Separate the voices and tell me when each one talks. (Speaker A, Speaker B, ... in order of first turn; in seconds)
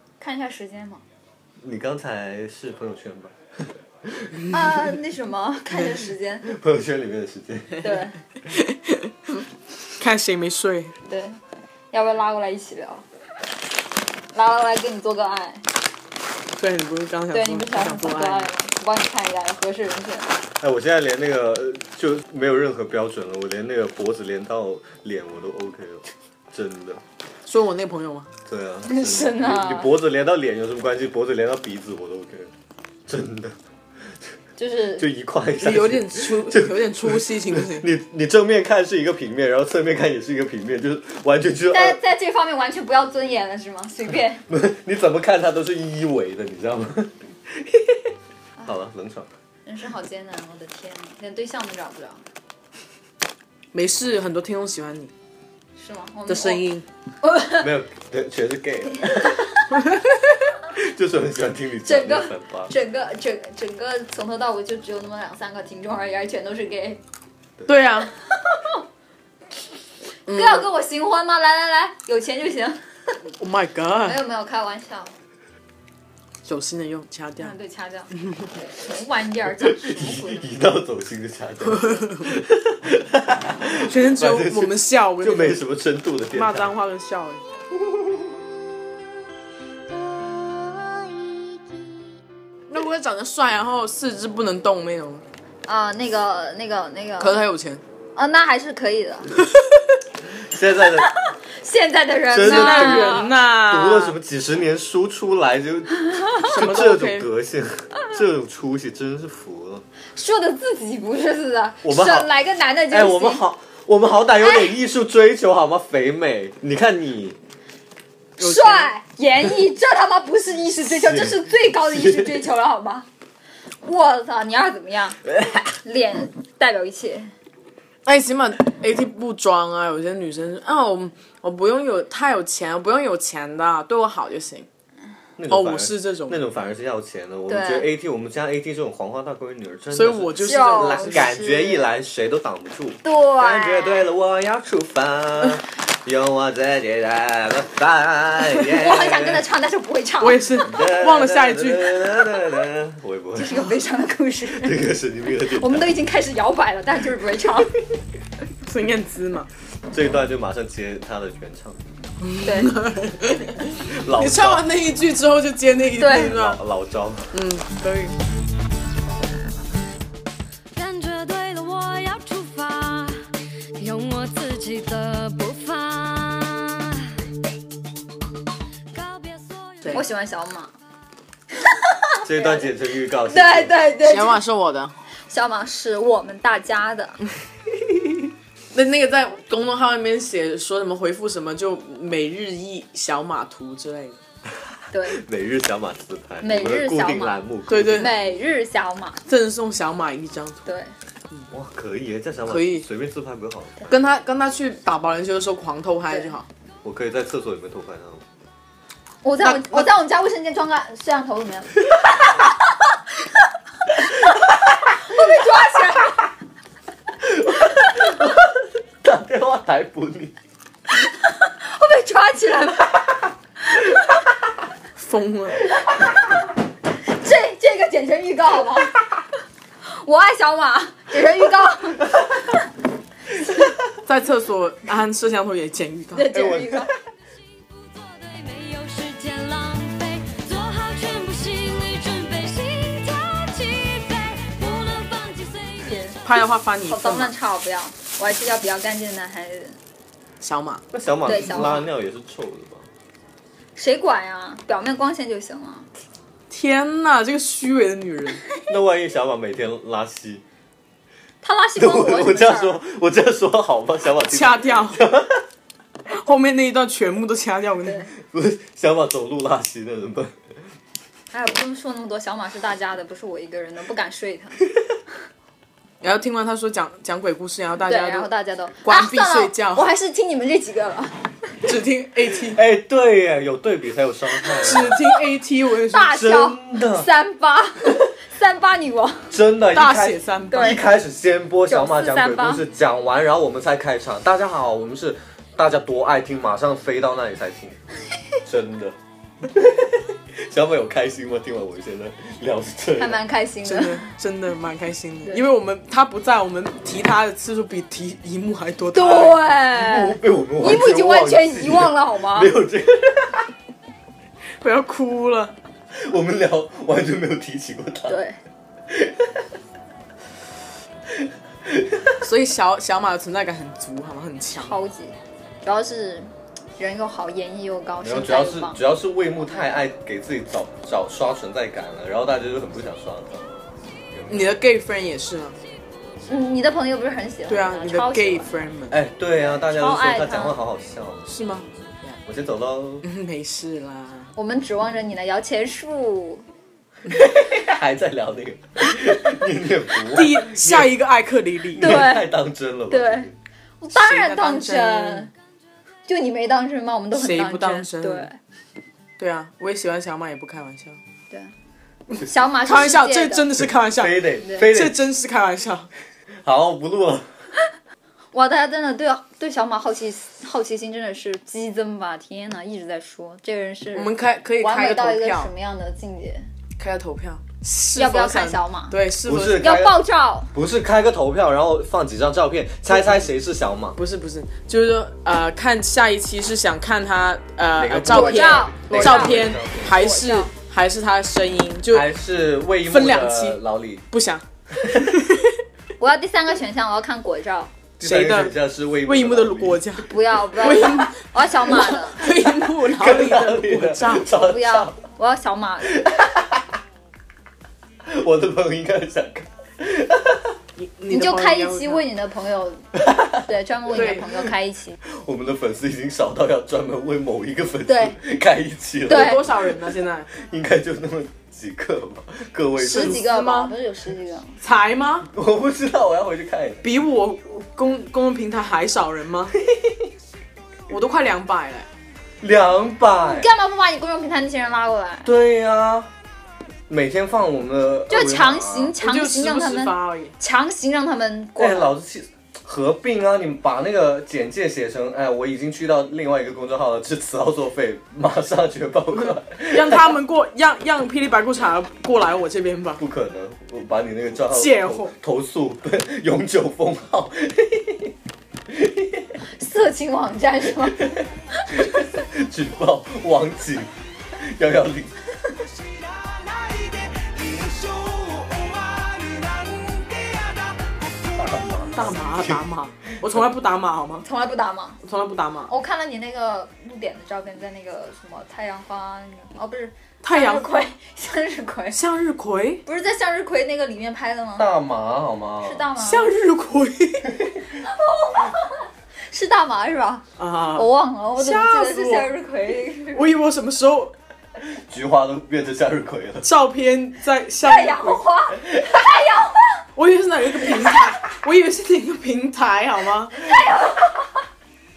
Speaker A: 0.2-1.0, 4.5-6.5, 7.8-8.2, 11.1-11.4, 11.9-13.0, 14.3-15.7, 17.3-20.4, 28.9-29.9, 34.6-35.1, 41.7-44.4, 49.6-52.2, 55.8-56.6, 57.2-57.7, 59.1-59.6, 61.8-67.0, 68.3-68.8, 70.3-72.8, 74.0-75.1, 77.4-80.5, 95.7-97.4, 98.2-99.3, 101.0-103.3, 110.1-113.4, 114.4-114.7, 118.4-123.1, 123.8-125.2, 125.8-127.3, 137.5-137.9, 140.4-141.9, 143.0-144.1, 148.7-150.7, 153.3-154.8, 155.5-157.7, 162.4-162.7, 166.0-166.3, 179.9-180.7, 181.7-182.7, 183.3-184.4, 185.3-187.2, 194.9-195.2, 196.4-199.2, 200.7-200.9, 209.2-212.4, 215.0-216.2, 221.0-223.0, 227.1-229.0, 229.8-232.2, 236.1-236.9, 245.8-246.2, 246.8-249.8, 251.2-251.8, 253.8-255.9, 261.4-262.8, 267.8-268.1, 271.3-274.6, 277.8-281.2, 284.5-285.1, 285.9-289.3, 290.5-290.8, 291.7-292.6, 303.0-304.1, 308.9-312.5, 318.1-318.4, 324.5-328.8, 336.2-338.5, 339.4-340.6, 344.4-346.4, 351.8-352.3, 352.9-353.3, 353.8-355.3, 356.1-358.4, 362.2-363.6, 368.3-376.5, 377.9-379.0, 379.5-380.5, 388.1-390.5, 396.0-397.7, 400.1-402.2, 404.3-406.0, 411.1-412.9, 413.4-415.0, 417.9-418.2, 419.1-419.4, 422.8-424.6, 433.2-435.3, 438.1-441.9, 459.6-461.8, 474.2-475.0, 475.7-482.0, 482.8-484.7, 485.6-486.3, 487.8-490.2, 490.7-493.3, 497.6-499.8, 503.3-504.4
Speaker B: 1.6-3.3, 4.0-4.3, 6.5-7.9, 20.6-27.0, 28.4-32.5, 33.1-33.6, 35.0-42.0, 44.5-48.1, 48.6-49.3, 57.6-59.6, 60.6-62.7, 79.5-86.7, 87.8-88.2, 100.3-101.1, 102.3-109.8, 111.8-112.3, 112.9-117.4, 121.0-122.5, 125.2-125.7, 135.4-149.4, 150.6-153.7, 154.5-155.9, 159.9-161.8, 163.8-164.7, 166.0-167.3, 182.2-183.8, 195.1-198.2, 201.5-203.9, 206.8-208.2, 217.2-220.3, 236.3-236.9, 250.9-252.9, 258.7-260.4, 261.8-265.4, 268.2-270.3, 282.5-285.0, 286.0-287.1, 289.3-297.8, 298.4-298.9, 299.5-303.2, 309.7-313.5, 315.9-318.2, 318.9-319.5, 321.1-322.2, 328.0-333.5, 334.1-334.6, 338.9-341.3, 342.2-343.1, 347.1-351.0, 351.7-353.3, 363.8-365.0, 366.4-367.3, 379.2-384.0, 387.7-389.9, 391.9-394.0, 394.8-395.1, 398.0-399.9, 402.8-405.0, 406.0-406.6, 408.1-410.6, 412.9-413.4, 415.0-423.2, 425.3-426.8, 429.7-430.1, 432.4-433.5, 435.2-436.1, 436.9-438.9, 441.6-450.2, 453.0-458.1, 458.7-459.3, 460.8-465.2, 471.3-472.6, 484.6-485.9, 494.7-496.5
Speaker C: 8.5-9.4, 10.0-10.9, 16.6-18.5, 27.4-28.3, 35.6-37.9, 53.7-55.1, 56.3-56.9, 67.7-68.1, 70.3-70.7, 73.4-74.2, 76.4-77.5, 81.7-82.3, 83.8-85.6, 86.3-87.4, 92.7-95.2, 97.2-97.8, 102.4-104.2, 106.4-107.3, 118.4-118.9, 128.1-134.7, 135.5-136.4, 139.9-141.3, 150.2-152.3, 158.6-159.5, 162.2-166.6, 167.3-168.1, 184.0-184.9, 188.7-194.2, 197.7-198.1, 199.3-200.7, 202.5-202.9, 203.9-206.5, 209.4-209.9, 224.9-225.6, 234.1-236.3, 246.2-247.3, 250.4-251.9, 256.5-258.4, 264.3-265.0, 266.1-268.1, 276.0-278.3, 278.8-279.9, 281.6-282.6, 284.6-286.2, 289.7-290.8, 303.6-309.4, 314.6-315.5, 322.2-324.8, 334.3-335.6, 337.5-339.0, 341.3-342.2, 343.0-344.3, 350.1-352.0, 353.9-355.3, 357.1-358.3, 359.2-361.0, 362.6-365.9, 373.9-375.5, 376.8-379.6, 382.9-383.2, 383.9-392.1, 392.9-393.6, 394.1-395.6, 398.0-404.3, 410.8-412.0, 413.9-414.3, 419.1-420.3, 422.8-423.7, 424.6-425.3, 426.8-429.6, 430.9-431.9, 439.0-440.3, 449.1-453.0, 454.5-455.1, 471.9-474.2, 475.0-475.7, 480.2-480.8, 481.9-482.8, 486.0-487.3, 490.4-492.3, 493.1-494.1, 496.4-498.2, 499.9-503.4
Speaker D: 170.7-177.2, 178.9-180.1, 237.5-246.1
Speaker E: 465.8-471.2